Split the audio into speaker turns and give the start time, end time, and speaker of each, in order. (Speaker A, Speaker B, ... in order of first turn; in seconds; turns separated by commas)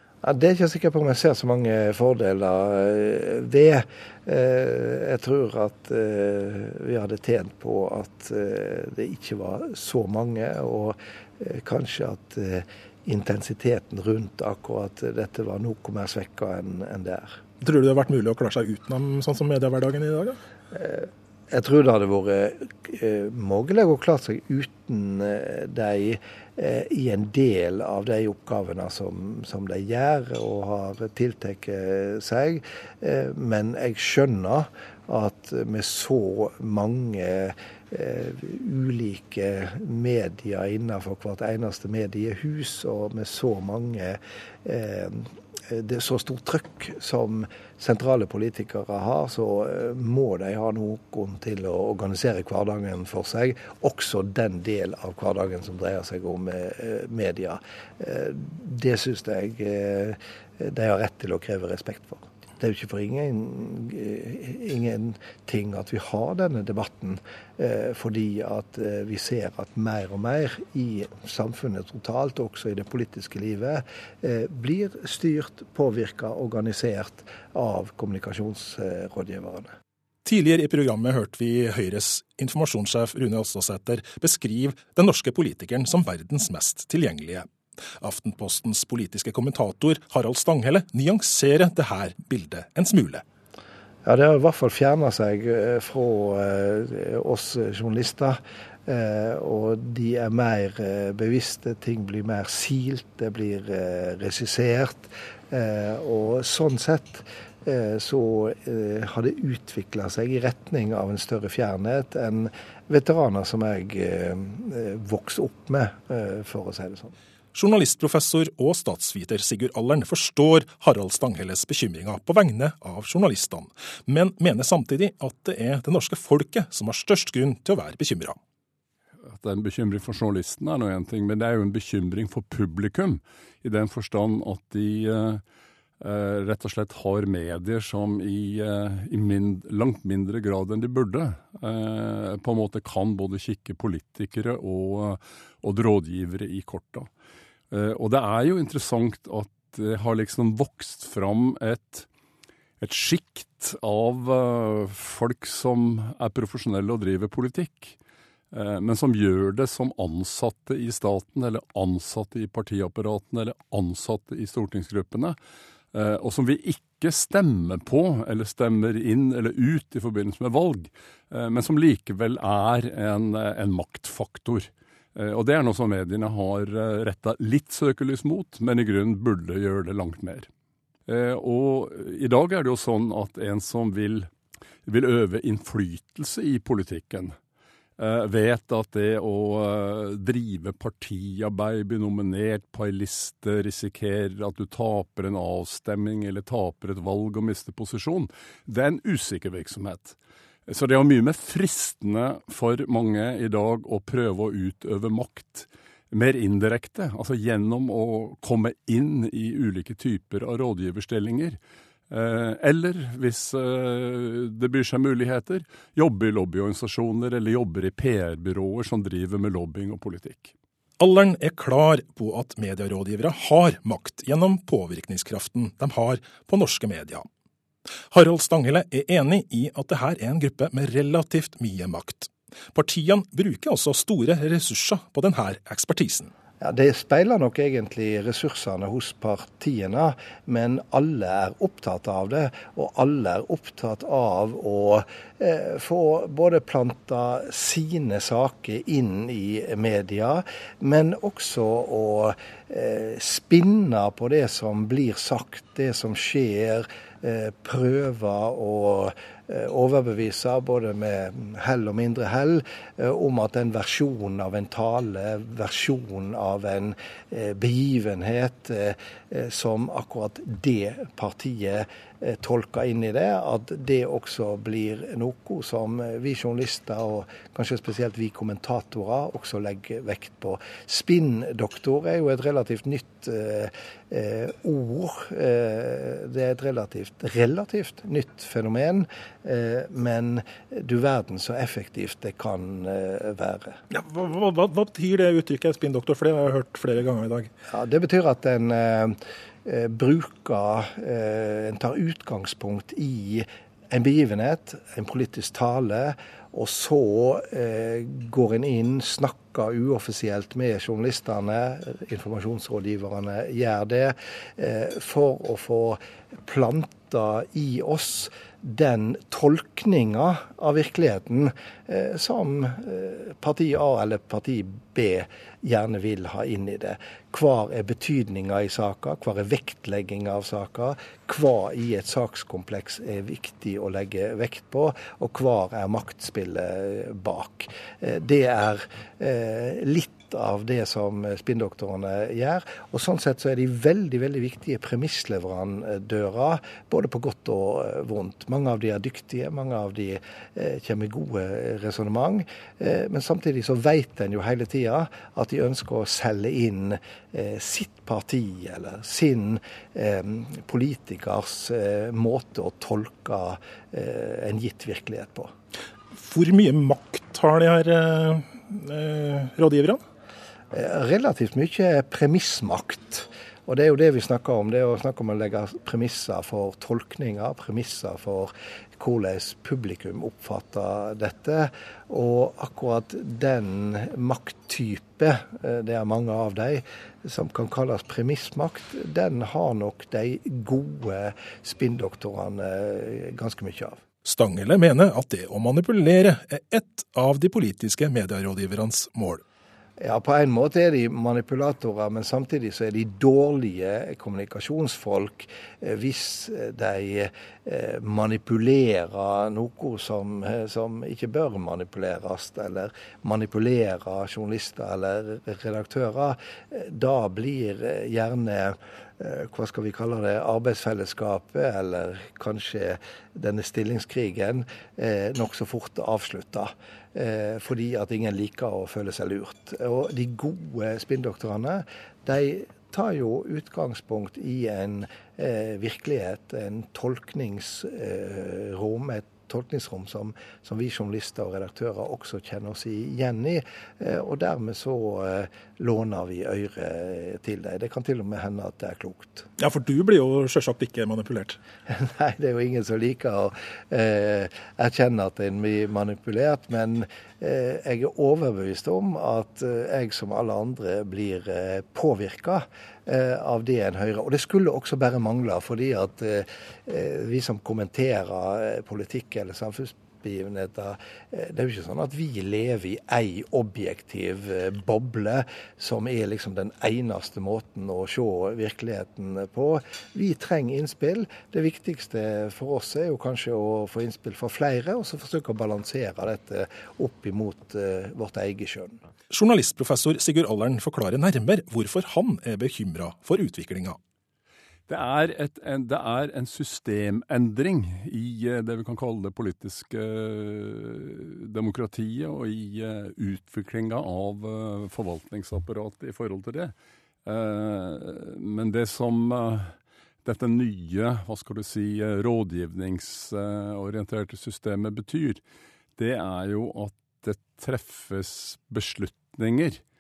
Speaker A: 0.2-17.4, Speaker B: 17.6-20.4, Speaker A: 20.7-79.7, Speaker B: 80.2-87.5, Speaker B: 88.0-93.2, Speaker A: 94.0-117.1, Speaker B: 117.5-128.4, Speaker C: 129.2-135.4, Speaker C: 136.0-147.1, Speaker C: 147.7-152.1, Speaker C: 152.8-157.9, Speaker C: 158.5-165.4, Speaker C: 165.9-180.5, Speaker C: 181.1-184.3, Speaker C: 184.8-187.3, Speaker C: 188.0-200.2, Speaker C: 200.7-211.6, Speaker C: 212.1-220.5, Speaker B: 221.0-227.2, Speaker B: 228.1-236.3, Speaker A: 236.6-293.8, Speaker B: 293.9-297.5, Speaker A: 297.7-365.5, Speaker B: 366.1-370.0, Speaker A: 370.7-394.0, Speaker B: 394.2-399.4, Speaker A: 400.0-449.5, Speaker B: 449.6-451.6, Speaker A: 451.9-489.0, Speaker B: 489.3-494.0, Speaker C: 494.9-506.7, Speaker C: 507.2-515.4, Speaker C: 516.0-519.8